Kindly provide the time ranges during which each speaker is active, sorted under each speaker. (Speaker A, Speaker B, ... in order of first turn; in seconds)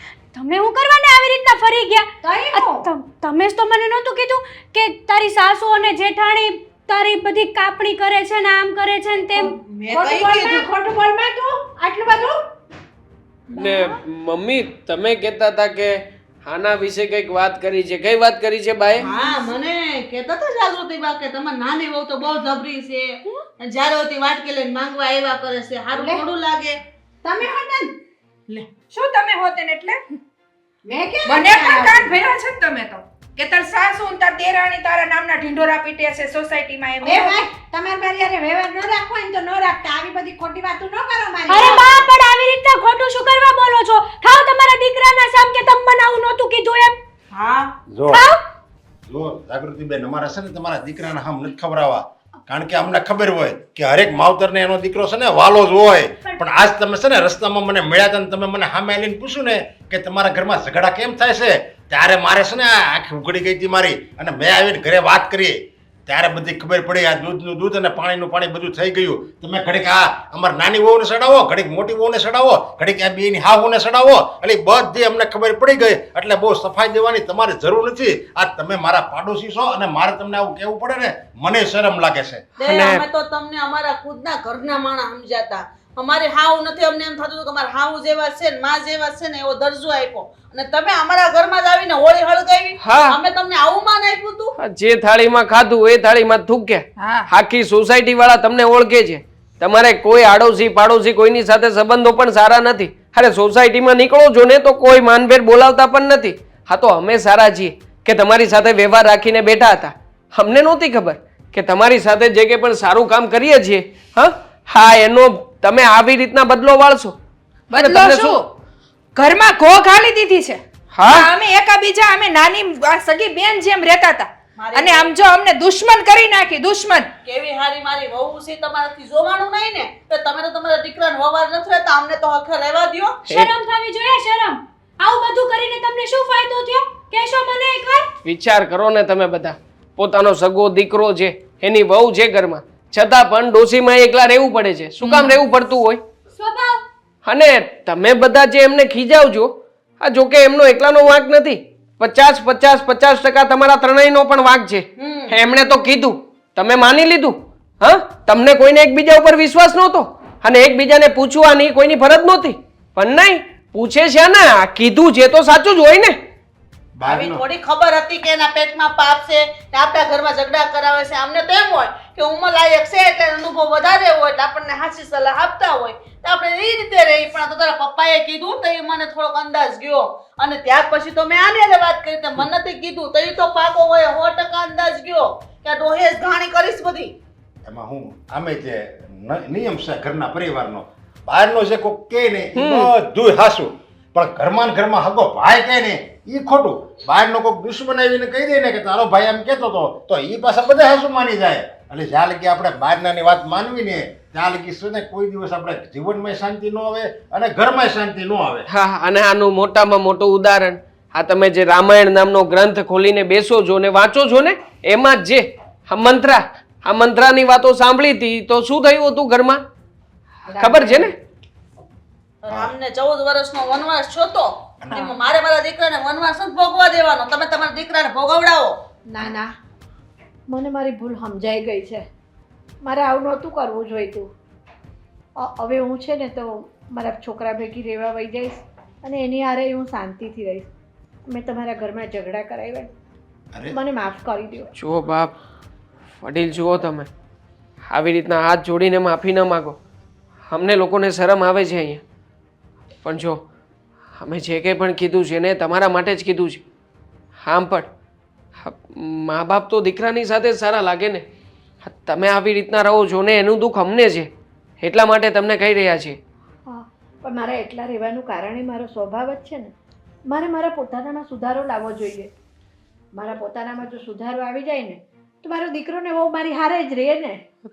Speaker A: 0.3-9.5, 13.6-13.9, 41.5-47.0, 48.1-48.4, 133.3-138.1, 146.3-146.8
Speaker B: 2.2-2.8, 9.9-12.4, 25.9-26.2, 27.2-28.0, 30.9-32.1, 37.0-42.0, 220.5-221.1, 229.1-229.5, 230.5-232.1, 232.8-234.3, 235.4-240.7, 241.3-242.9, 243.7-244.7, 266.7-269.7, 270.3-272.3, 273.1-277.4
Speaker C: 9.3-10.7, 19.0-26.8, 47.3-47.7, 82.6-94.5, 124.6-125.1, 127.2-133.2, 145.0-145.3, 155.0-155.4, 167.1-187.1, 222.4-228.8
Speaker D: 13.6-19.1, 82.6-83.0, 92.8-93.2, 94.6-117.2, 117.8-118.4, 120.9-121.3, 133.3-133.5, 138.2-146.0, 147.2-166.2, 192.6-192.9, 208.7-219.6, 220.6-221.2, 244.8-245.3, 246.2-247.1, 247.9-249.8, 250.5-252.0, 253.0-253.4, 254.2-256.6, 257.4-257.9, 258.6-261.2, 261.9-264.3, 264.8-266.2
Speaker E: 28.9-30.0, 31.3-37.4, 97.0-97.3, 117.7-118.5, 119.2-127.1
Speaker F: 47.9-48.3, 49.1-82.4, 167.0-167.4, 187.7-208.7, 243.5-243.8